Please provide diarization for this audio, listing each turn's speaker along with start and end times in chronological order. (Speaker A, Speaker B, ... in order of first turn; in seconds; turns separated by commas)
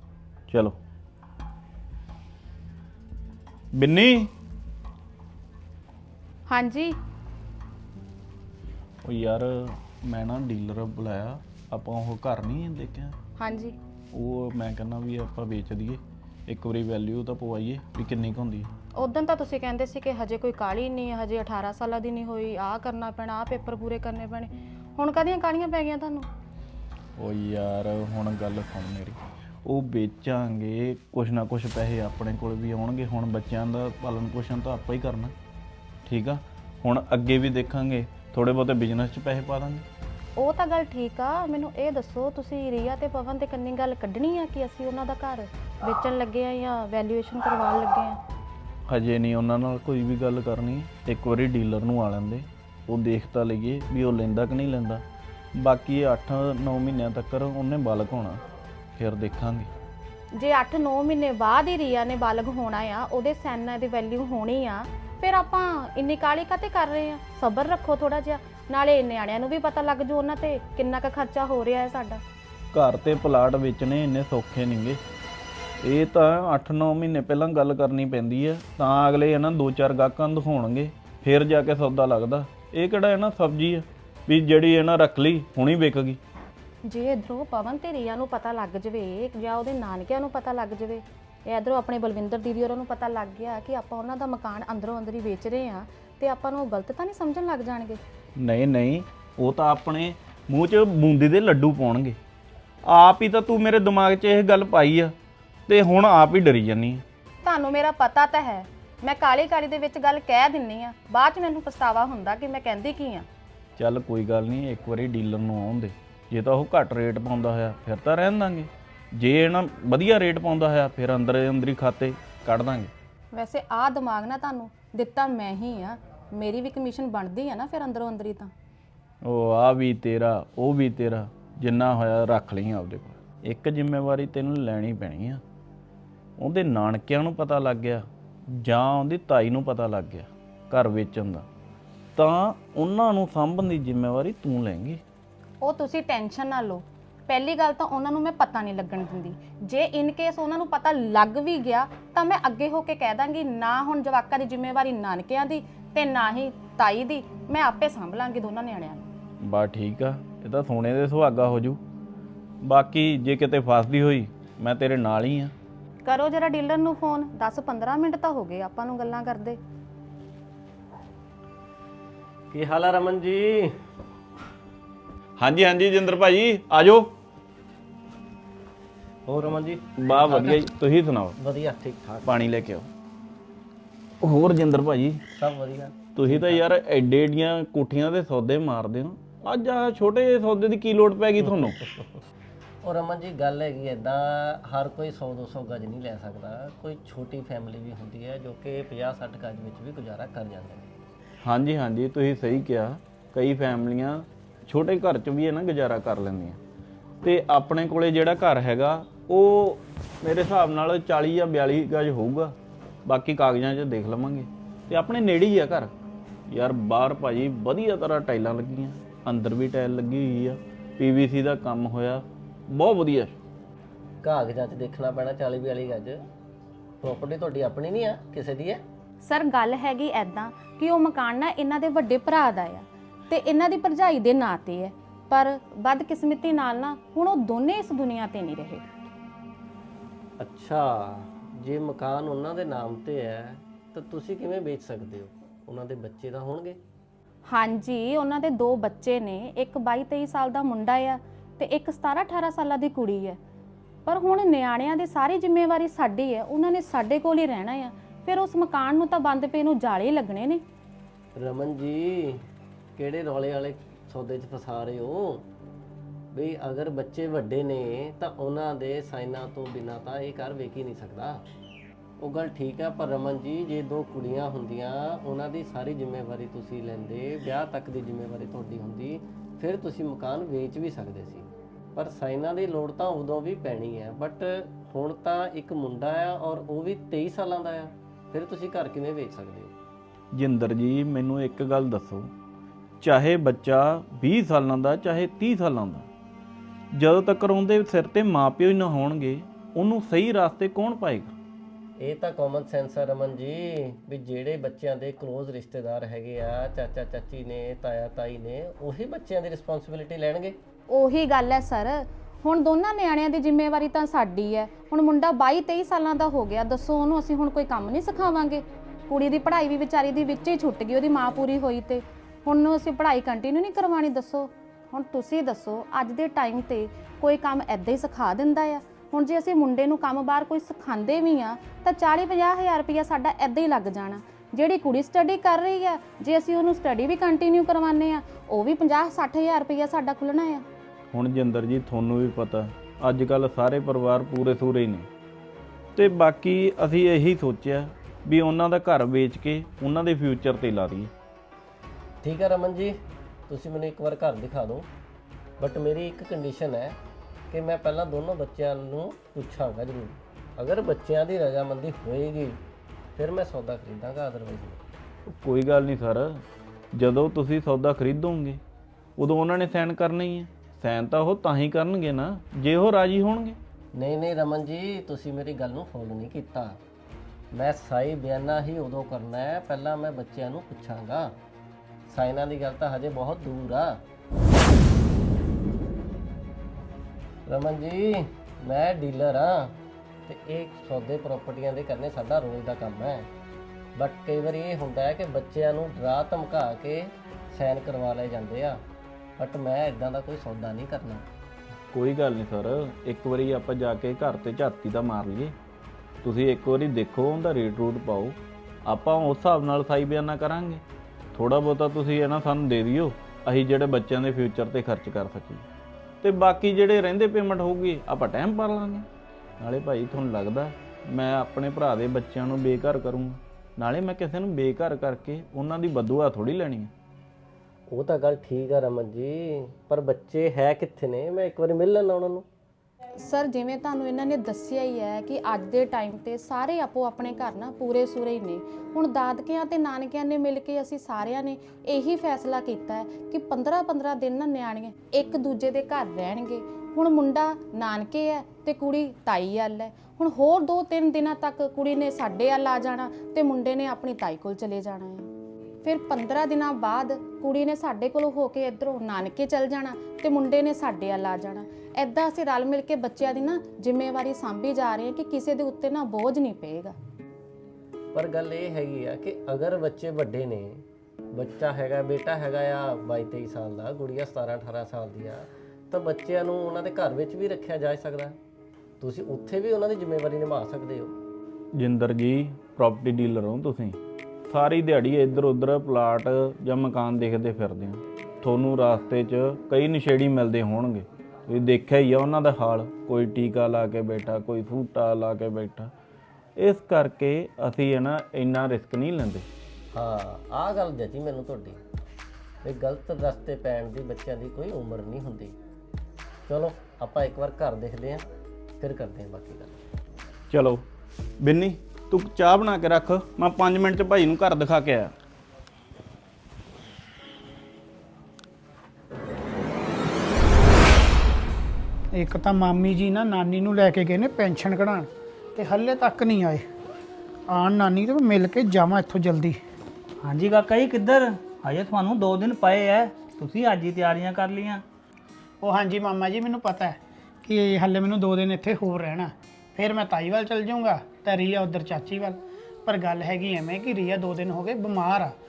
Speaker A: 0.5-0.8, Speaker A: 3.7-4.3, Speaker B: 6.5-7.0, Speaker A: 9.0-13.1, Speaker B: 13.4-13.8, Speaker A: 14.1-18.7, Speaker B: 18.9-26.3, Speaker A: 27.2-35.3, Speaker A: 36.0-39.9, Speaker B: 40.4-48.2, Speaker A: 48.9-55.0, Speaker A: 55.5-58.4, Speaker A: 59.0-59.7, Speaker B: 60.3-72.2, Speaker A: 72.7-75.0, Speaker A: 75.8-86.2, Speaker B: 86.8-98.0, Speaker A: 98.4-102.2, Speaker A: 102.8-105.1, Speaker A: 105.7-107.0, Speaker B: 107.4-113.3, Speaker A: 113.8-122.9, Speaker B: 123.3-128.5, Speaker A: 129.2-135.4, Speaker A: 136.4-141.4, Speaker A: 142.2-145.0, Speaker B: 145.6-159.0, Speaker A: 159.4-161.8, Speaker A: 162.6-165.5, Speaker B: 166.0-169.6, Speaker C: 172.5-173.8, Speaker A: 175.4-177.1, Speaker C: 179.3-180.6, Speaker A: 180.0-181.4, Speaker C: 181.4-182.3, Speaker A: 182.2-182.9, Speaker A: 184.2-185.2, Speaker C: 185.3-186.6, Speaker A: 186.2-191.8, Speaker C: 191.4-192.0, Speaker C: 192.8-200.9, Speaker A: 201.4-206.6, Speaker A: 207.2-215.9, Speaker A: 216.5-223.3, Speaker C: 224.2-226.2, Speaker C: 227.0-228.8, Speaker B: 229.2-238.8, Speaker C: 240.4-246.8, Speaker B: 247.5-253.4, Speaker B: 254.1-260.6, Speaker C: 261.4-262.4, Speaker C: 262.9-265.4, Speaker C: 266.3-271.4, Speaker C: 272.2-289.7, Speaker A: 290.3-292.3, Speaker A: 293.0-296.1, Speaker A: 296.9-301.3, Speaker C: 302.0-310.6, Speaker B: 310.9-340.6, Speaker A: 341.1-345.1, Speaker A: 345.9-351.1, Speaker C: 352.2-354.9, Speaker C: 355.6-357.0, Speaker C: 357.5-362.6, Speaker C: 363.1-364.8, Speaker A: 365.3-368.6, Speaker A: 369.2-373.6, Speaker C: 373.9-376.8, Speaker C: 377.5-381.4, Speaker C: 382.1-384.0, Speaker C: 387.5-393.3, Speaker C: 393.9-398.8, Speaker C: 399.4-401.2, Speaker A: 401.9-405.5, Speaker A: 406.2-410.8, Speaker A: 411.3-415.6, Speaker A: 416.2-419.1, Speaker A: 419.6-426.9, Speaker C: 427.9-432.4, Speaker B: 433.2-455.3, Speaker B: 455.8-466.9, Speaker C: 468.1-478.4, Speaker C: 479.0-481.1, Speaker A: 481.7-495.9, Speaker A: 496.6-499.4, Speaker C: 499.9-501.8, Speaker C: 502.6-505.5, Speaker C: 506.5-508.2, Speaker C: 508.8-509.8, Speaker A: 510.5-510.8, Speaker A: 511.4-515.1, Speaker D: 522.1-526.7, Speaker D: 527.5-529.6, Speaker E: 530.2-534.8, Speaker D: 535.6-545.4